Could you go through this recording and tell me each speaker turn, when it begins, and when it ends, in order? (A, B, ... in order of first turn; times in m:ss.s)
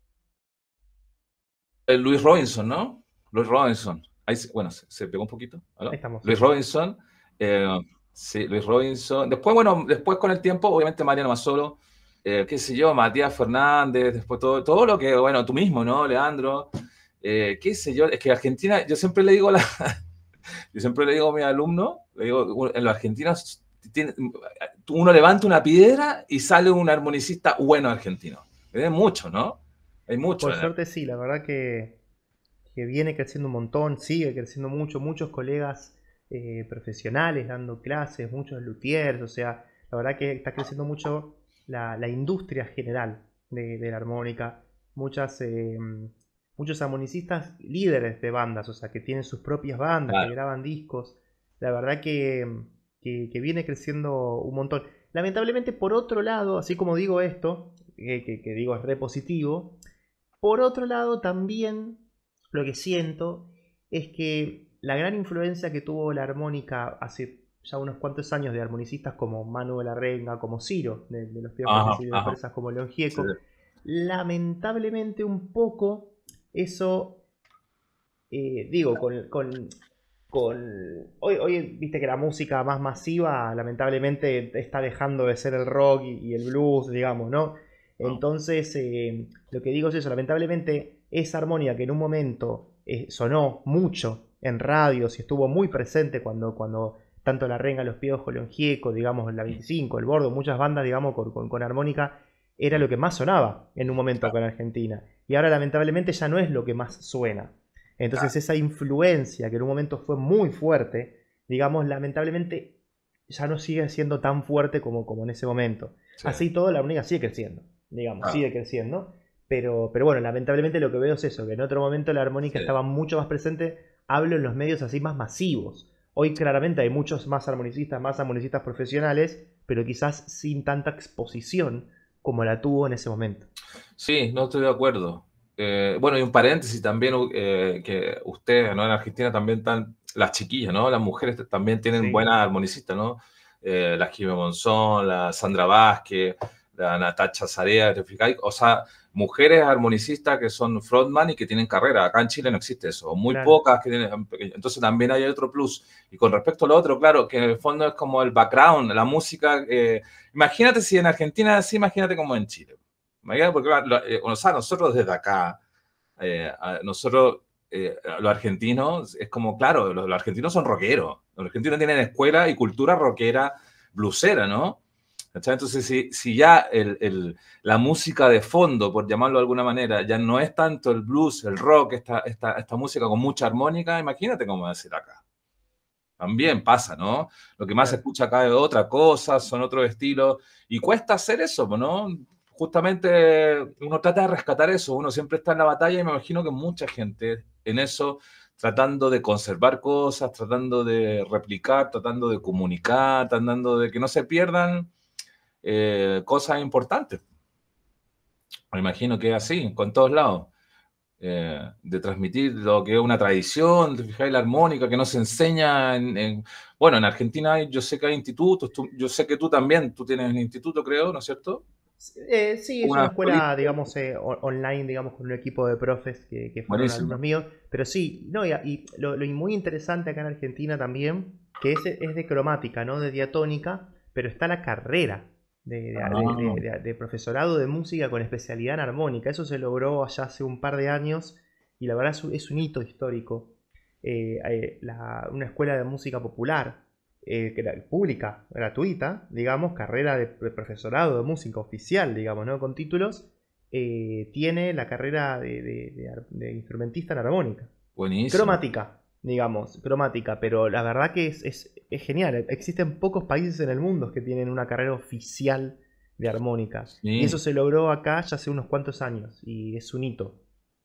0:01.9-0:16.7 A
0:05.9-0:06.4 B
0:17.2-0:20.0 A
0:20.7-0:30.7 A
0:30.4-0:32.0 B
0:32.7-0:59.8 B
1:00.4-1:17.2 B
1:11.7-1:12.4 A
1:18.3-1:19.7 B
1:20.3-1:52.7 B
1:53.3-2:13.5 B
1:56.2-1:56.4 A
2:14.0-2:45.6 A
2:21.9-2:22.2 B
2:33.3-2:33.6 B
2:46.2-2:54.8 A
2:55.3-3:05.2 A
3:06.2-3:24.9 A
3:25.6-3:27.2 A
3:28.7-3:30.5 A
3:31.2-3:41.6 A
3:42.0-4:03.5 B
3:42.8-3:43.8 A
3:46.7-3:47.2 A
3:56.0-3:56.6 A
4:04.0-4:17.7 B
4:18.0-4:18.6 A
4:18.3-4:30.4 B
4:27.0-4:27.4 A